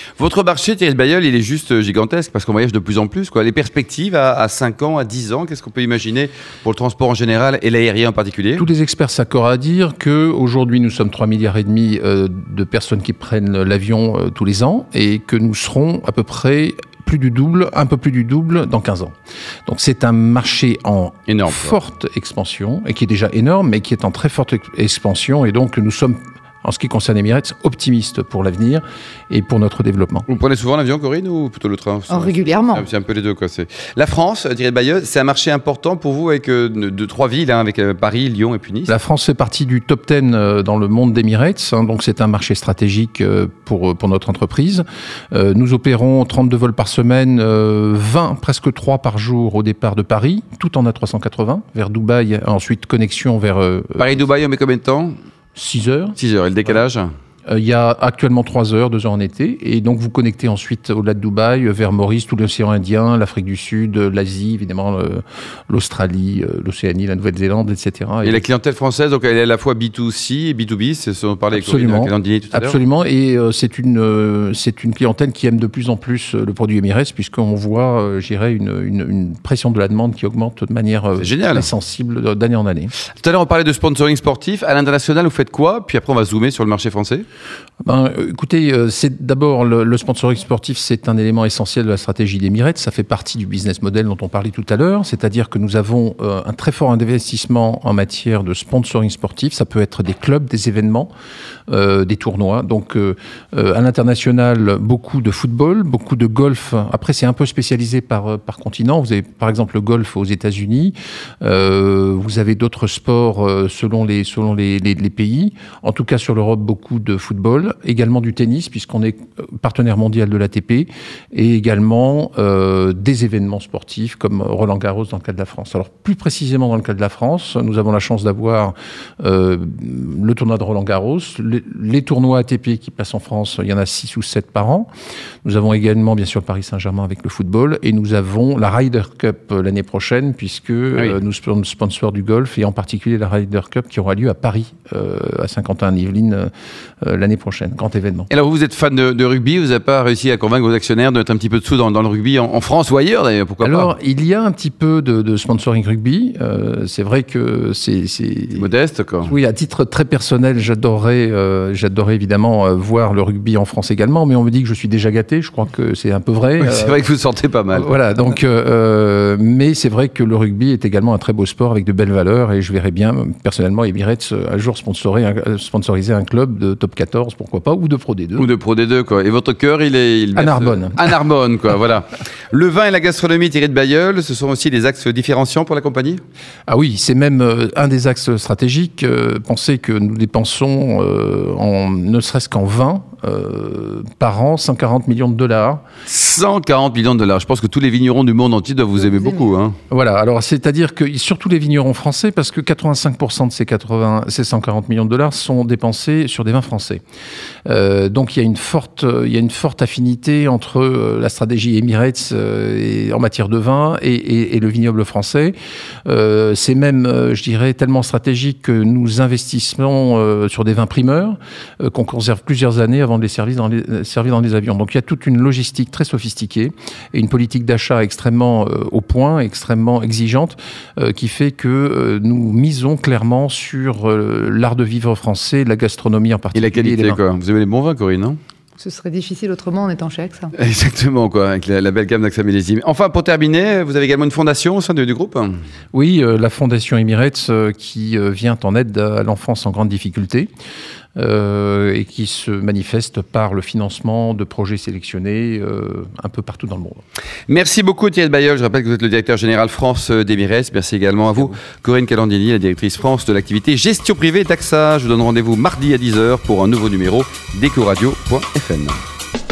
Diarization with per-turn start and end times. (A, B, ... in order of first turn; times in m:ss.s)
0:00.2-0:08.7 A
0:08.6-0:19.1 B
0:19.6-0:30.2 B
0:21.3-0:21.7 A
0:30.3-0:38.9 A
0:32.1-0:32.9 C
0:38.9-0:54.2 B
0:54.0-0:55.1 A
0:55.5-0:56.2 B
0:56.2-0:57.1 A
0:57.5-1:08.4 B
1:08.2-1:12.8 A
1:11.5-1:22.9 B
1:21.2-1:21.7 A
1:23.1-1:27.2 A
1:27.8-1:41.1 B
1:41.7-2:14.9 B
2:15.4-2:26.5 B
2:27.0-2:28.3 B
2:28.3-2:33.9 A
2:33.6-2:38.7 B
2:38.5-2:39.3 A
2:39.2-2:47.0 B
2:46.6-2:47.9 A
2:47.7-2:58.5 B
2:58.4-3:06.2 A
3:00.3-3:01.0 B
3:06.7-3:15.8 B
3:16.1-3:19.8 A
3:19.9-3:27.0 B
3:27.6-3:35.5 B
3:36.0-3:57.2 B
3:56.5-3:58.4 A
3:58.8-4:00.5 C
4:00.6-4:05.6 A
4:05.9-4:10.5 B
4:11.2-4:17.0 B
4:17.5-4:29.0 A